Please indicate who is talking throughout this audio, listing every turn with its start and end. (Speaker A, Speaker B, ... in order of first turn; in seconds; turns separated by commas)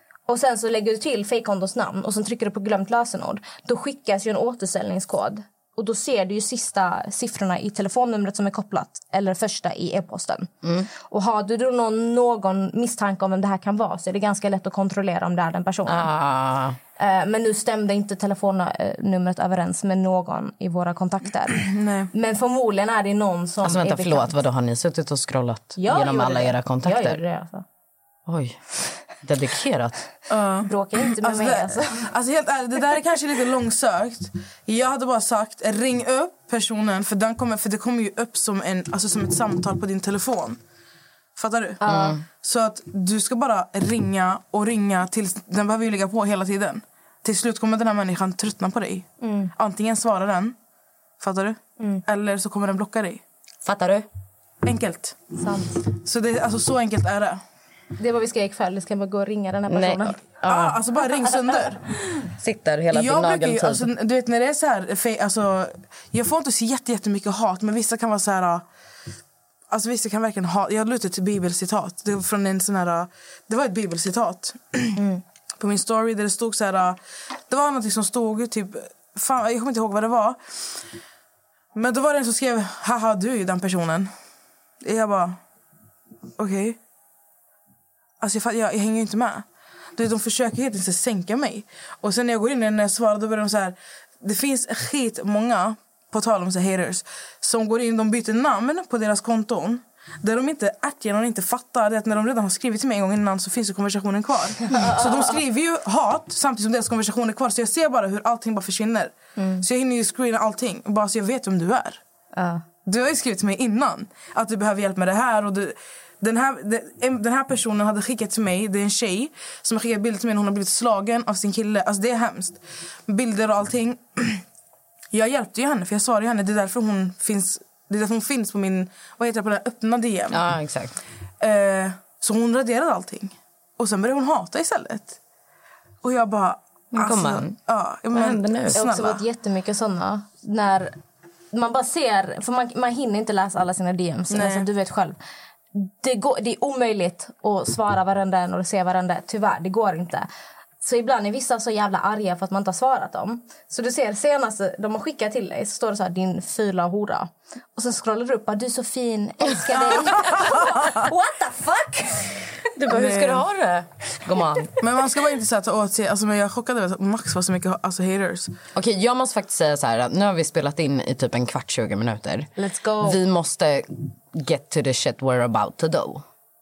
Speaker A: 0.3-16.1, Speaker B: 15.9-16.8, Speaker A: 17.0-24.4, Speaker C: 21.6-22.1, Speaker B: 23.6-27.2, Speaker A: 25.8-27.6, Speaker B: 28.3-28.6, Speaker B: 29.2-29.9, Speaker C: 30.3-40.6, Speaker A: 30.7-32.1, Speaker C: 41.4-50.6, Speaker A: 41.8-42.1, Speaker B: 41.9-42.2, Speaker A: 49.2-49.5, Speaker C: 51.2-53.2, Speaker A: 51.8-52.0, Speaker B: 53.6-54.1, Speaker C: 54.6-55.2, Speaker A: 55.4-55.8, Speaker C: 55.8-57.4, Speaker A: 58.0-60.2, Speaker B: 59.7-60.8, Speaker C: 60.5-61.8, Speaker B: 62.4-63.9, Speaker C: 62.9-68.6, Speaker C: 69.7-75.0, Speaker C: 75.6-77.0, Speaker C: 77.5-80.4, Speaker C: 81.7-84.1, Speaker C: 84.8-85.4, Speaker C: 86.4-86.8, Speaker C: 88.2-112.0, Speaker A: 104.7-105.2, Speaker A: 109.4-109.6, Speaker A: 112.3-112.6, Speaker C: 112.9-124.4, Speaker C: 125.1-130.4, Speaker B: 130.3-130.9, Speaker C: 131.4-135.2, Speaker C: 136.0-139.2, Speaker B: 136.9-137.6, Speaker B: 138.1-138.8, Speaker A: 138.7-141.0, Speaker A: 141.5-145.2, Speaker C: 144.3-144.7, Speaker A: 145.7-150.2, Speaker A: 150.8-162.4, Speaker C: 159.9-160.9, Speaker B: 162.8-164.8, Speaker C: 162.9-163.4, Speaker C: 164.8-168.6, Speaker B: 168.7-172.5, Speaker A: 172.6-173.2, Speaker B: 173.0-176.2